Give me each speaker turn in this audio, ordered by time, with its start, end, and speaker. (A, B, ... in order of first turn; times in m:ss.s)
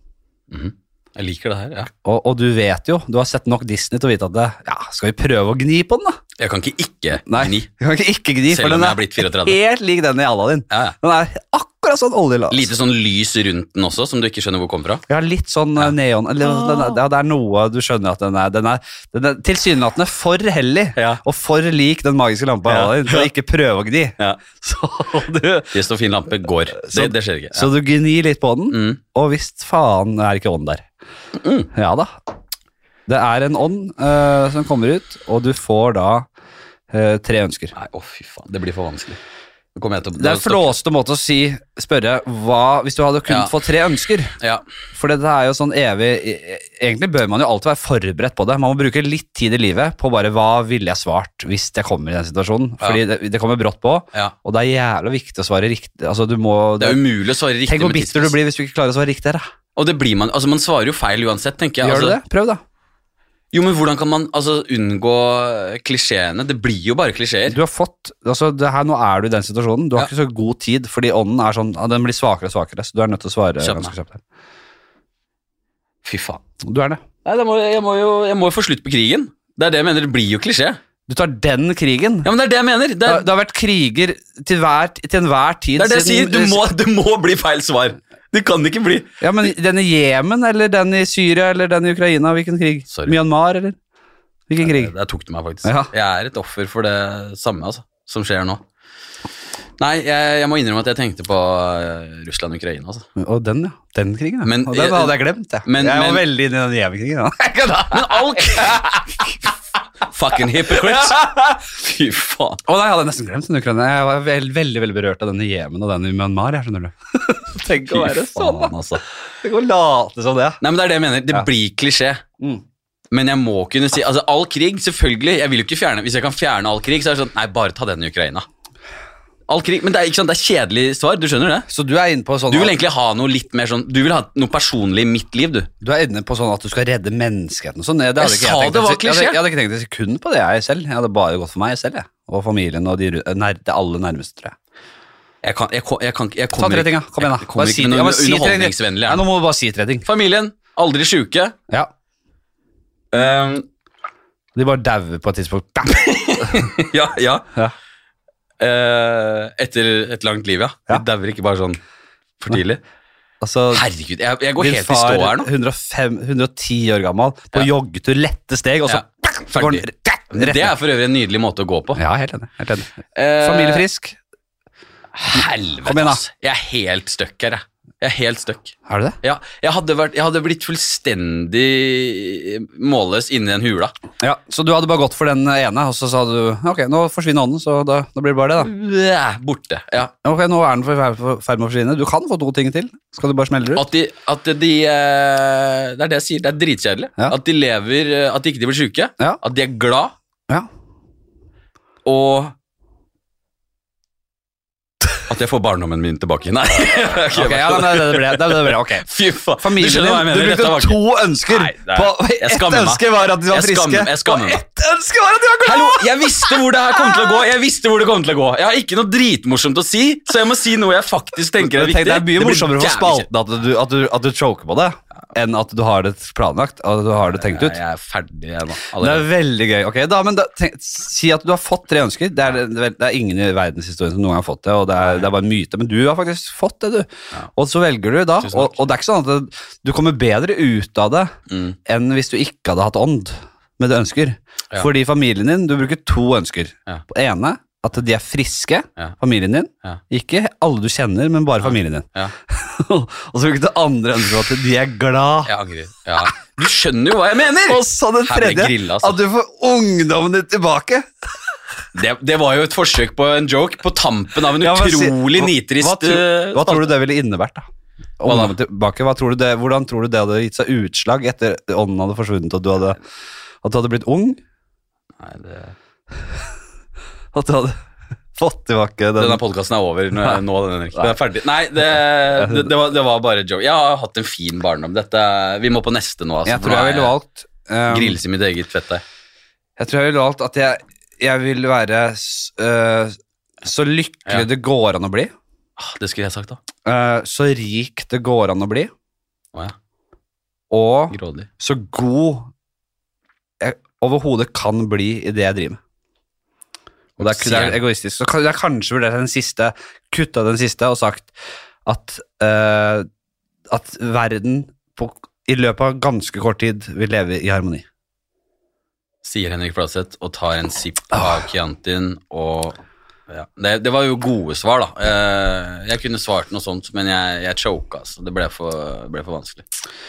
0:00.5-0:01.9 A
0:02.0-0:06.2 B
0:06.4-0:07.7 A
0:07.2-0:12.7 B
0:08.5-0:09.6 A
0:12.5-0:15.0 A
0:15.1-0:25.8 B
0:15.8-0:17.0 A
0:21.0-0:21.2 A
0:22.6-0:23.3 A
0:24.2-0:24.6 A
0:25.7-0:27.7 A
0:26.7-0:30.8 B
0:28.7-0:29.0 A
0:31.3-0:31.7 A
0:31.7-0:32.1 B
0:33.1-0:36.3 B
0:36.9-0:37.7 B
0:37.7-0:39.2 A
0:39.7-0:40.8 A
0:40.2-0:44.3 B
0:43.3-0:43.5 A
0:44.4-0:44.6 A
0:44.9-0:57.0 B
0:56.8-0:58.3 A
0:57.6-0:59.5 B
0:59.8-1:02.2 A
1:01.8-1:02.6 B
1:03.5-1:07.6 A
1:07.5-1:14.2 B
1:13.6-1:13.9 A
1:16.0-1:16.4 A
1:16.6-1:17.0 B
1:17.2-1:20.8 A
1:21.1-1:22.3 B
1:22.2-1:23.2 A
1:23.0-1:26.6 B
1:25.8-1:29.1 A
1:29.2-1:33.8 B
1:32.9-1:33.2 A
1:34.5-1:34.9 B
1:34.6-1:38.6 A
1:35.6-1:35.9 B
1:39.8-1:43.1 A
1:43.2-1:49.1 B
1:44.4-1:46.2 A
1:47.8-1:49.3 A
1:50.0-1:52.6 A
1:50.7-1:51.6 B
1:52.6-1:58.7 B
1:57.8-1:59.0 A
1:59.4-2:00.6 B
2:00.6-2:02.2 A
2:03.1-2:08.4 A
2:09.5-2:11.7 A
2:11.7-2:12.8 B
2:12.5-2:15.7 A
2:15.8-2:24.6 B
2:18.2-2:19.4 A
2:25.4-2:29.2 A
2:26.6-2:30.0 B
2:30.0-2:31.6 A
2:33.1-2:33.6 A
2:34.6-2:36.7 B
2:35.9-2:37.5 A
2:38.6-2:41.8 A
2:42.4-2:42.8 A
2:43.4-2:43.8 B
2:43.7-2:45.5 A
2:44.6-2:50.7 B
2:48.9-2:52.0 A
2:52.0-2:54.2 B
2:53.1-2:53.8 A
2:55.1-3:03.9 A
2:55.8-2:56.2 B
2:58.9-2:59.2 B
3:04.2-3:08.7 B
3:08.6-3:10.1 A
3:10.2-3:13.8 B
3:13.8-3:20.1 A
3:22.0-3:22.5 A
3:25.3-3:34.6 A
3:27.2-3:29.1 B
3:29.6-3:37.4 B
3:35.6-3:43.3 A
3:41.6-3:47.8 B
3:47.3-3:49.3 A
3:49.0-4:01.3 B
3:58.4-3:58.8 A
4:01.5-4:01.8 A
4:01.8-4:15.5 B
4:11.6-4:12.3 A
4:15.4-4:19.2 A
4:17.7-4:21.1 B
4:21.9-4:26.9 A
4:24.6-4:27.6 B
4:28.2-4:33.0 B
4:28.2-4:28.5 A
4:33.6-4:34.4 B
4:35.2-4:35.7 A
4:37.3-4:37.8 B
4:38.4-4:39.4 B
4:39.2-4:47.1 A
4:42.3-4:42.7 B
4:46.4-4:48.2 B
4:47.9-4:49.0 A
4:49.8-4:55.3 B
4:55.8-4:56.6 A
4:56.8-4:58.9 B
5:00.7-5:02.5 B
5:01.1-5:01.5 A
5:03.6-5:05.8 B
5:07.2-5:07.8 A
5:07.2-5:11.3 B
5:11.8-5:13.1 B
5:13.7-5:17.8 B
5:19.2-5:29.6 A